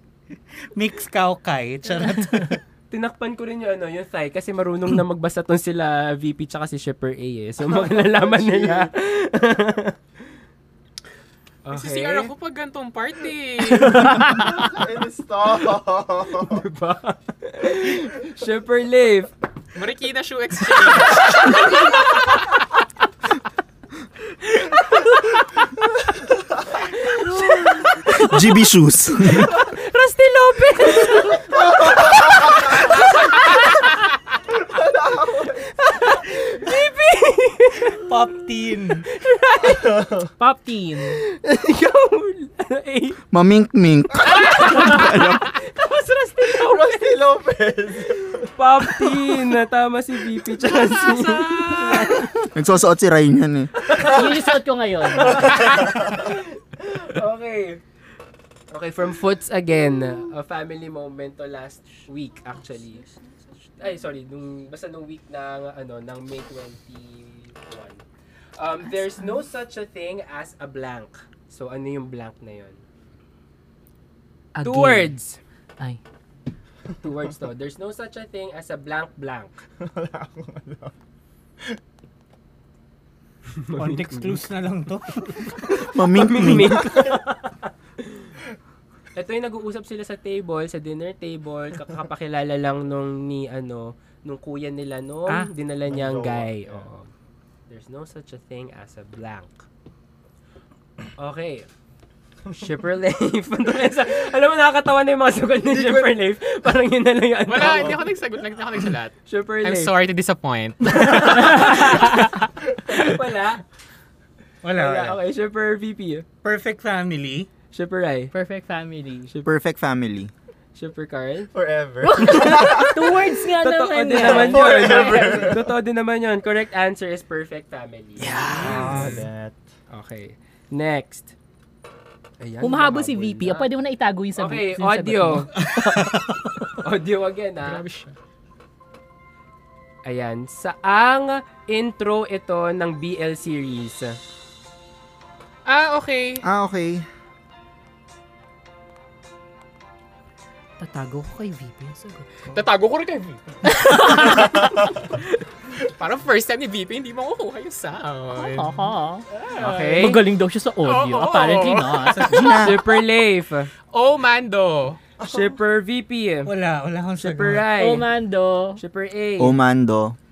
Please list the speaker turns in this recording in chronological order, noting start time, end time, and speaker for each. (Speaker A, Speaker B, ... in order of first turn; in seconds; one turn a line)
Speaker A: 0.8-2.6
Speaker B: 2.9-9.9
Speaker C: 7.6-8.9
Speaker B: 11.6-12.3
Speaker D: 11.7-14.1
Speaker B: 13.7-14.5
Speaker C: 14.2-16.6
Speaker B: 16.5-19.3
Speaker D: 19.7-21.9
Speaker B: 20.9-22.2
Speaker B: 24.5-25.3
Speaker C: 26.1-26.9
Speaker B: 26.9-28.4
Speaker E: 28.2-29.5
Speaker B: 29.2-33.6
Speaker F: 30.9-31.4
Speaker C: 31.4-32.8
Speaker C: 34.5-35.7
Speaker B: 35.8-38.0
Speaker A: 38.0-39.0
Speaker B: 39.1-40.0
Speaker C: 39.6-40.3
Speaker F: 40.4-41.2
Speaker B: 41.1-43.2
Speaker E: 43.3-45.5
Speaker B: 44.4-47.0
Speaker C: 46.4-48.5
Speaker B: 48.5-52.3
Speaker D: 51.0-52.1
Speaker F: 51.8-52.2
Speaker E: 52.4-53.7
Speaker B: 53.8-54.5
Speaker F: 53.9-55.7
Speaker C: 54.0-54.3
Speaker B: 55.1-57.8
Speaker C: 55.2-56.3
Speaker B: 58.7-63.0
Speaker B: 63.8-68.0
Speaker B: 68.5-72.8
Speaker F: 68.8-69.5
Speaker F: 74.5-75.2
Speaker B: 74.6-75.4
Speaker B: 77.0-79.5
Speaker C: 79.8-80.9
Speaker B: 83.5-84.4
Speaker A: 83.7-85.8
Speaker E: 85.8-87.0
Speaker B: 86.0-88.3
Speaker C: 86.9-87.1
Speaker B: 89.1-97.1
Speaker C: 95.9-96.9
Speaker B: 97.7-99.7
Speaker B: 101.2-101.7
Speaker B: 102.6-108.0
Speaker C: 105.6-106.1
Speaker D: 107.5-112.4
Speaker C: 107.5-108.1
Speaker B: 109.3-109.9
Speaker B: 110.9-112.3
Speaker B: 112.8-113.6
Speaker A: 114.6-115.2
Speaker B: 114.7-116.2
Speaker A: 116.4-117.5
Speaker B: 117.7-118.3
Speaker F: 118.3-119.3
Speaker E: 119.4-120.3
Speaker B: 120.8-121.5
Speaker C: 121.5-123.2
Speaker F: 122.0-125.5
Speaker B: 122.2-128.7
Speaker C: 124.2-125.7
Speaker A: 128.2-129.2
Speaker C: 128.5-129.6
Speaker B: 129.9-131.3
Speaker B: 132.4-133.7
Speaker F: 132.6-135.6
Speaker B: 134.3-136.1
Speaker A: 135.6-136.6
Speaker B: 136.7-137.8
Speaker D: 137.6-138.2
Speaker B: 140.1-144.2
Speaker D: 145.7-146.4
Speaker E: 146.4-147.1
Speaker F: 150.8-152.7
Speaker D: 152.5-153.4
Speaker F: 153.6-154.7
Speaker D: 155.8-160.1
Speaker F: 158.3-159.3
Speaker B: 159.6-160.2
Speaker F: 159.9-162.3
Speaker D: 160.8-162.7
Speaker E: 162.3-162.8
Speaker B: 162.5-163.7
Speaker D: 163.9-165.0
Speaker C: 165.2-165.6
Speaker B: 165.2-166.5
Speaker A: 166.4-167.7
Speaker B: 167.2-168.1
Speaker F: 167.7-168.8
Speaker B: 168.8-169.6
Speaker E: 169.4-170.2